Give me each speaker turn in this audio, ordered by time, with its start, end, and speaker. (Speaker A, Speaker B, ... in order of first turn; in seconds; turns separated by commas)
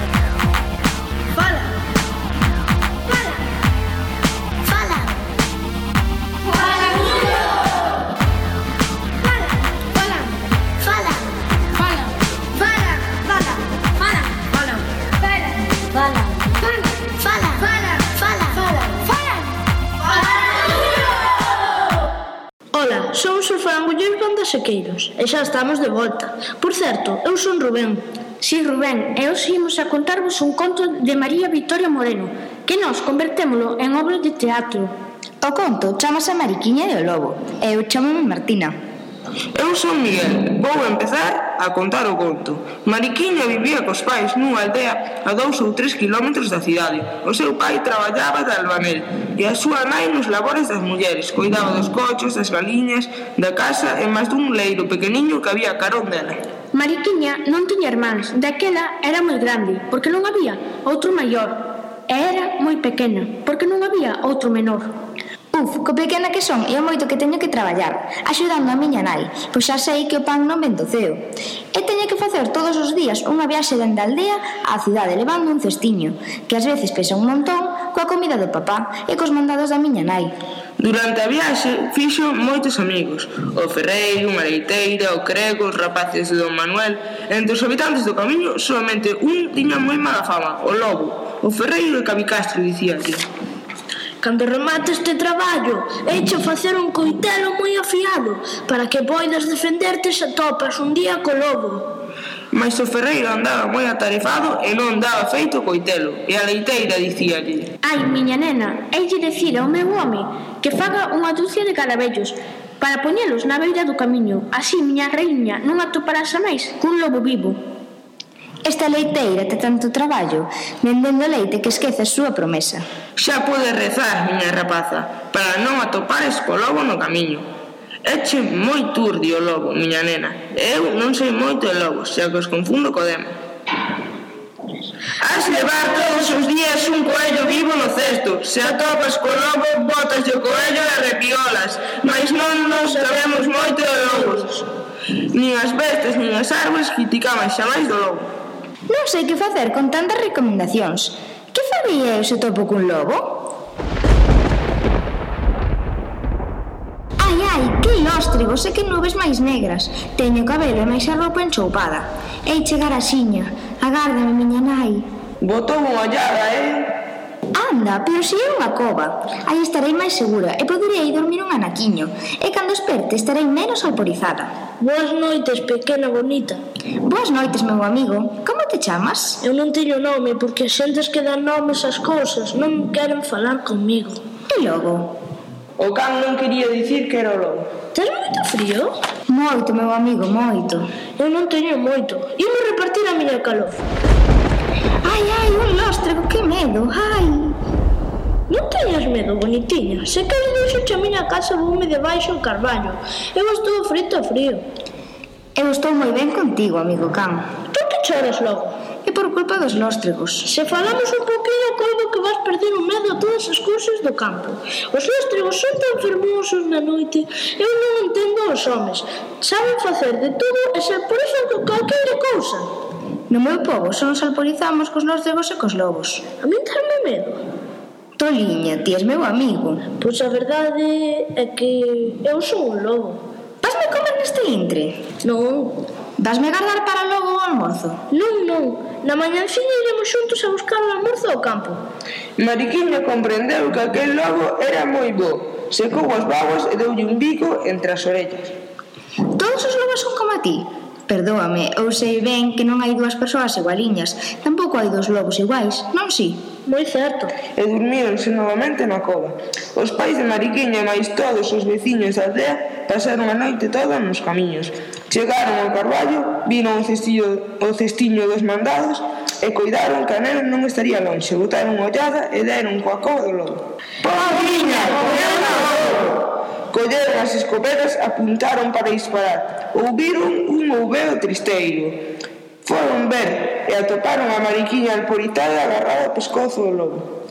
Speaker A: 1.4-1.8, Speaker A: 4.7-5.2, Speaker A: 6.8-7.3, Speaker A: 9.9-11.3, Speaker A: 12.6-13.6, Speaker A: 17.0-19.4, Speaker A: 22.7-28.0, Speaker B: 28.4-34.9, Speaker C: 35.4-38.8, Speaker D: 39.5-56.4, Speaker B: 56.7-64.9, Speaker C: 65.5-80.3, Speaker D: 80.8-93.3, Speaker A: 94.2-101.9, Speaker D: 102.5-107.7, Speaker B: 107.8-117.6, Speaker C: 118.7-122.8, Speaker D: 123.2-127.5, Speaker D: 128.0-133.3, Speaker D: 135.2-144.7, Speaker A: 142.6-144.4, Speaker D: 145.3-148.3, Speaker C: 148.9-153.4, Speaker C: 157.2-165.1, Speaker D: 165.4-167.0, Speaker C: 167.6-174.5, Speaker A: 174.8-176.6, Speaker C: 177.0-179.4, Speaker A: 179.4-184.2, Speaker C: 184.5-185.2, Speaker D: 185.8-187.7, Speaker A: 187.9-188.9, Speaker C: 189.3-190.9, Speaker A: 191.2-193.8, Speaker C: 195.0-197.6, Speaker A: 198.5-204.7, Speaker C: 205.6-207.5, Speaker A: 207.7-208.8, Speaker C: 209.1-210.5, Speaker A: 210.4-222.7, Speaker C: 223.3-226.2, Speaker A: 226.4-227.4, Speaker C: 228.2-229.9, Speaker A: 230.0-233.2, Speaker C: 233.6-235.0, Speaker A: 235.2-235.9, Speaker C: 236.2-238.0, Speaker A: 238.1-241.8, Speaker D: 242.4-248.6, Speaker C: 249.3-256.4, Speaker A: 256.7-257.4, Speaker D: 257.6-282.0, Speaker D: 282.6-287.1